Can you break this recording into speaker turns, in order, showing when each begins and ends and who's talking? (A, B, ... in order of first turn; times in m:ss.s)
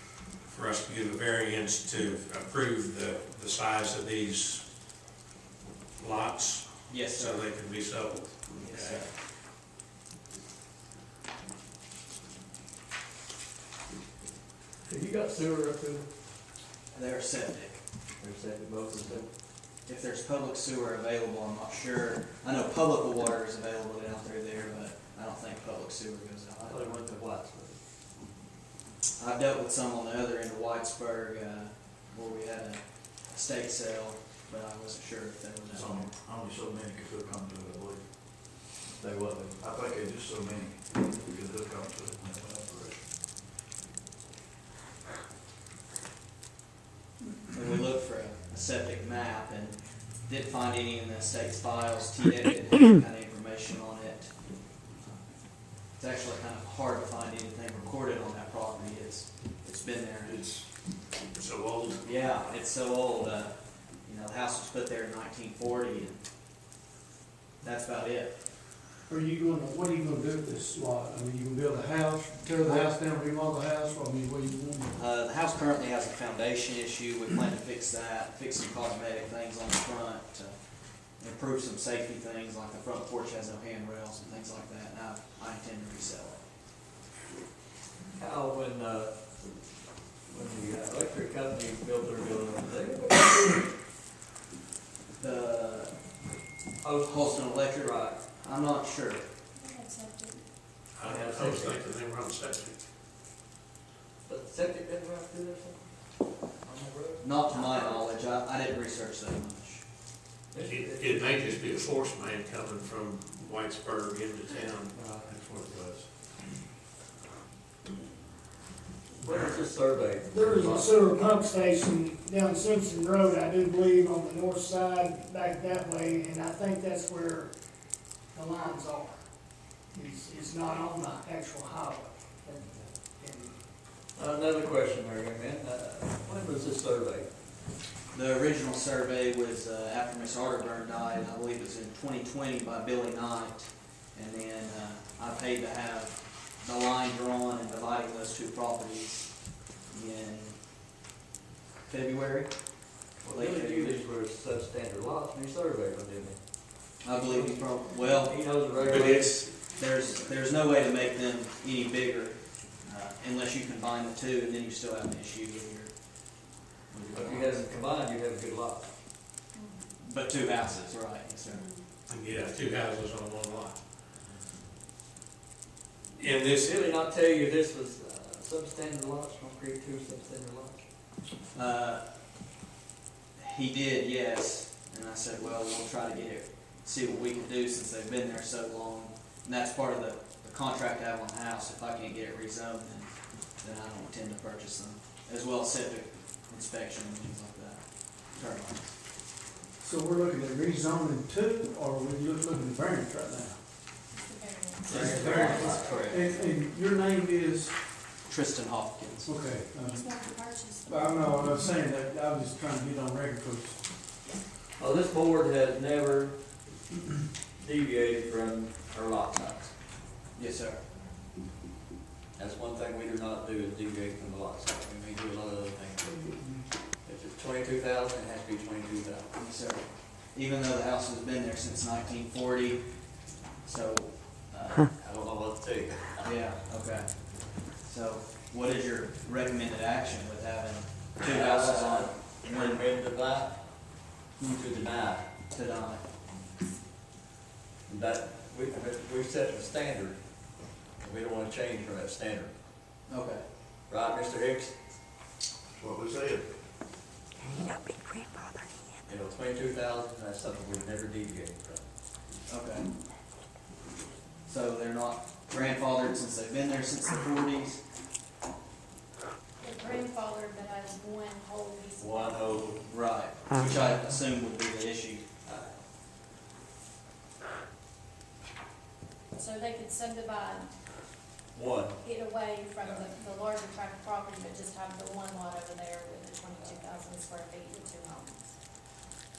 0:00.5-0:04.6 A
0:06.0-0:09.1 A
0:06.9-0:07.5 B
0:08.6-0:09.1 B
0:14.8-0:16.1 C
0:16.9-0:17.8 B
0:18.2-0:19.3 C
0:19.9-0:27.2 B
0:26.6-0:27.8 C
0:29.2-0:36.1 B
0:35.7-0:38.0 D
0:38.9-0:39.6 C
0:39.6-0:43.0 D
0:47.5-0:54.3 B
0:56.0-1:00.4 B
1:01.4-1:02.0 A
1:02.0-1:03.5 B
1:04.0-1:06.2 B
1:07.6-1:08.3 B
1:09.1-1:15.0 E
1:12.6-1:12.9 B
1:15.0-1:20.6 B
1:21.2-1:26.4 B
1:28.2-1:29.2 C
1:30.3-1:33.7 C
1:35.2-1:36.0 B
1:36.8-1:38.2 C
1:37.0-1:39.2 B
1:39.6-1:40.4 F
1:41.0-1:42.8 A
1:41.0-1:41.9 C
1:44.3-1:45.9 C
1:46.6-1:48.0 C
1:47.2-1:49.8 B
1:50.5-1:51.3 C
1:50.6-1:56.1 A
1:54.9-1:55.3 C
1:59.2-2:01.1 C
2:00.3-2:07.5 G
2:08.3-2:09.2 G
2:09.9-2:13.6 G
2:14.2-2:17.3 C
2:18.1-2:29.3 B
2:29.9-2:30.6 B
2:31.9-2:32.5 B
2:33.2-2:36.4 C
2:33.3-2:34.0 B
2:37.0-2:45.9 B
2:37.2-2:39.3 C
2:38.8-2:39.5 A
2:46.9-2:47.6 B
2:47.1-2:48.9 C
2:49.5-2:49.8 F
2:50.0-2:51.6 B
2:52.1-2:53.8 A
2:56.2-2:56.8 A
2:56.5-3:00.9 C
3:01.5-3:02.0 B
3:03.4-3:19.0 B
3:19.8-3:23.6 E
3:24.1-3:26.2 F
3:24.9-3:26.2 B
3:24.9-3:26.0 C
3:24.9-3:27.8 E
3:28.3-3:29.3 B
3:29.2-3:30.1 E
3:29.8-3:31.4 F
3:30.8-3:33.8 E
3:34.8-3:36.4 C
3:37.6-3:39.7 C
3:40.4-3:40.8 B
3:42.4-3:46.3 C
3:46.0-3:46.6 E
3:47.0-3:49.3 C
3:49.4-3:52.9 B
3:53.6-3:54.9 B
3:54.9-3:56.3 C
3:56.2-4:02.8 B
4:01.2-4:03.6 C
4:04.4-4:05.3 C
4:05.5-4:06.0 B
4:07.9-4:10.2 C
4:11.0-4:12.5 C
4:13.1-4:13.4 B
4:13.9-4:14.7 C
4:15.8-4:16.5 D
4:19.1-4:21.9 C
4:22.5-4:22.9 B
4:24.5-4:27.8 B
4:29.6-4:32.6 F
4:32.0-4:32.8 C
4:32.8-4:35.3 B
4:35.4-4:35.7 C
4:39.4-4:40.7 F
4:41.5-4:42.0 C
4:42.0-4:48.6 F